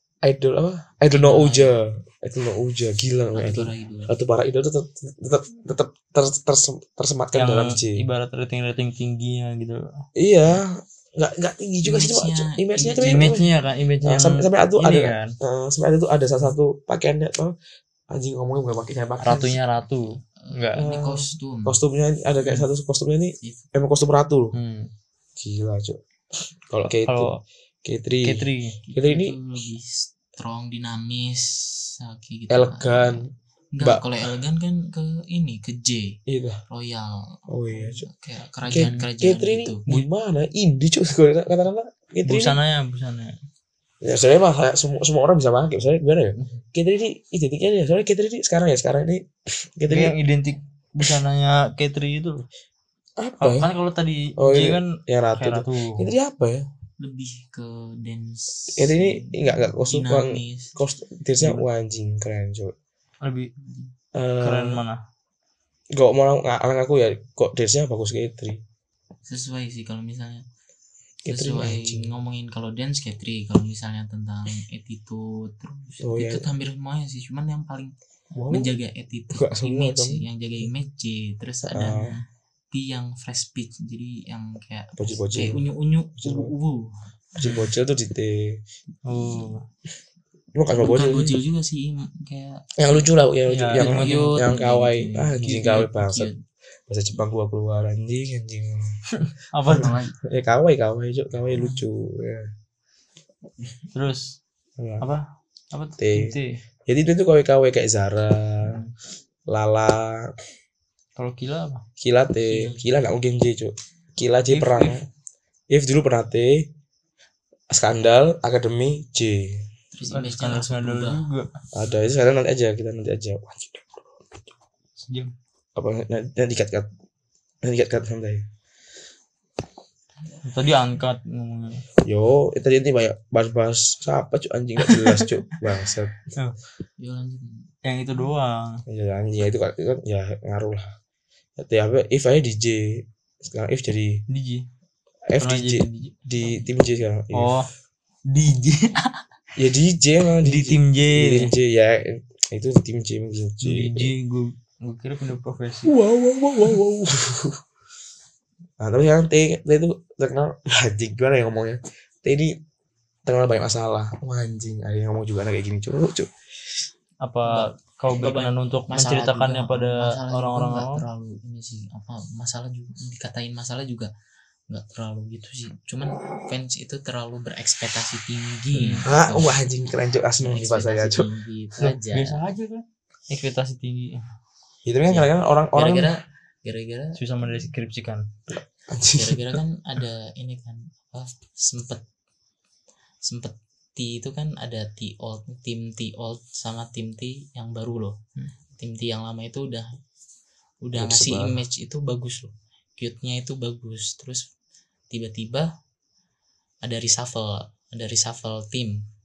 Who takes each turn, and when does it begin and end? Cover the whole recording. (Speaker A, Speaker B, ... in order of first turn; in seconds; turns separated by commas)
Speaker A: 0.2-8.1, Speaker B: 1.1-1.8, Speaker B: 3.3-4.1, Speaker C: 7.3-10.0, Speaker A: 10.2-13.5, Speaker B: 11.8-13.4, Speaker C: 13.0-15.3, Speaker A: 14.0-17.6, Speaker A: 18.1-19.6, Speaker C: 19.2-20.9, Speaker B: 20.4-21.8, Speaker A: 20.8-24.5, Speaker C: 22.4-22.7, Speaker C: 24.5-24.9, Speaker A: 25.4-26.0, Speaker A: 26.7-27.3, Speaker C: 27.1-27.4, Speaker A: 27.9-29.4, Speaker C: 28.2-28.8, Speaker B: 28.8-33.2, Speaker A: 32.5-33.3, Speaker B: 33.7-36.1, Speaker A: 33.8-34.1, Speaker A: 36.3-36.6, Speaker B: 36.7-39.9, Speaker A: 37.5-38.1, Speaker A: 38.7-42.6, Speaker C: 42.3-43.4, Speaker A: 44.0-50.2, Speaker C: 49.9-52.5, Speaker A: 53.2-53.7, Speaker C: 53.4-56.1, Speaker A: 54.4-56.7, Speaker B: 57.0-60.8, Speaker A: 58.8-62.7, Speaker C: 63.2-63.5, Speaker B: 63.6-63.9, Speaker A: 64.1-64.8, Speaker C: 64.4-65.0, Speaker A: 65.9-68.6, Speaker B: 69.3-70.5, Speaker A: 71.2-72.1, Speaker B: 71.3-77.9, Speaker A: 76.0-76.5, Speaker A: 78.3-78.7, Speaker B: 78.5-87.0, Speaker A: 79.3-80.2, Speaker A: 81.7-82.2, Speaker A: 85.0-85.7, Speaker A: 86.2-86.5, Speaker A: 87.4-88.6, Speaker C: 87.4-87.7, Speaker C: 89.1-89.6, Speaker A: 90.5-91.4, Speaker B: 90.7-92.7, Speaker A: 92.8-96.3, Speaker C: 93.5-94.3, Speaker B: 93.8-96.4, Speaker A: 96.9-98.9, Speaker C: 99.1-100.0, Speaker A: 99.7-102.5, Speaker B: 99.8-100.2, Speaker C: 103.9-104.4, Speaker A: 104.8-105.1, Speaker C: 105.0-106.6, Speaker A: 106.0-108.8, Speaker A: 109.5-110.3, Speaker C: 111.2-111.8, Speaker A: 112.0-115.0, Speaker B: 112.5-112.8, Speaker C: 114.5-115.0, Speaker A: 115.7-116.7, Speaker A: 117.7-119.7, Speaker B: 119.9-121.3, Speaker C: 120.1-121.5, Speaker A: 121.7-124.2, Speaker C: 125.0-125.3, Speaker A: 125.8-126.9, Speaker A: 127.6-128.4, Speaker C: 130.4-131.8, Speaker A: 132.1-136.2, Speaker C: 134.8-135.3, Speaker B: 137.0-137.7, Speaker C: 137.8-138.8, Speaker A: 138.9-140.9, Speaker A: 141.6-144.2, Speaker C: 144.3-144.7, Speaker A: 145.3-147.6, Speaker C: 145.4-146.1, Speaker C: 147.3-147.7, Speaker C: 148.3-149.2, Speaker A: 149.6-154.1, Speaker C: 150.4-151.5, Speaker C: 153.6-155.9, Speaker A: 155.8-157.6, Speaker A: 158.8-162.6, Speaker A: 163.3-166.3, Speaker C: 167.2-171.0, Speaker B: 167.5-174.1, Speaker B: 174.7-179.6, Speaker C: 178.8-179.1, Speaker A: 179.1-181.3, Speaker B: 180.4-182.4, Speaker C: 181.8-184.2, Speaker A: 184.8-186.1, Speaker B: 185.1-187.2, Speaker C: 187.2-188.3, Speaker A: 188.5-189.6, Speaker B: 189.1-192.0, Speaker B: 193.2-198.2, Speaker B: 198.8-199.9, Speaker B: 200.8-204.4, Speaker A: 201.0-201.6, Speaker B: 205.1-205.7, Speaker B: 206.8-209.0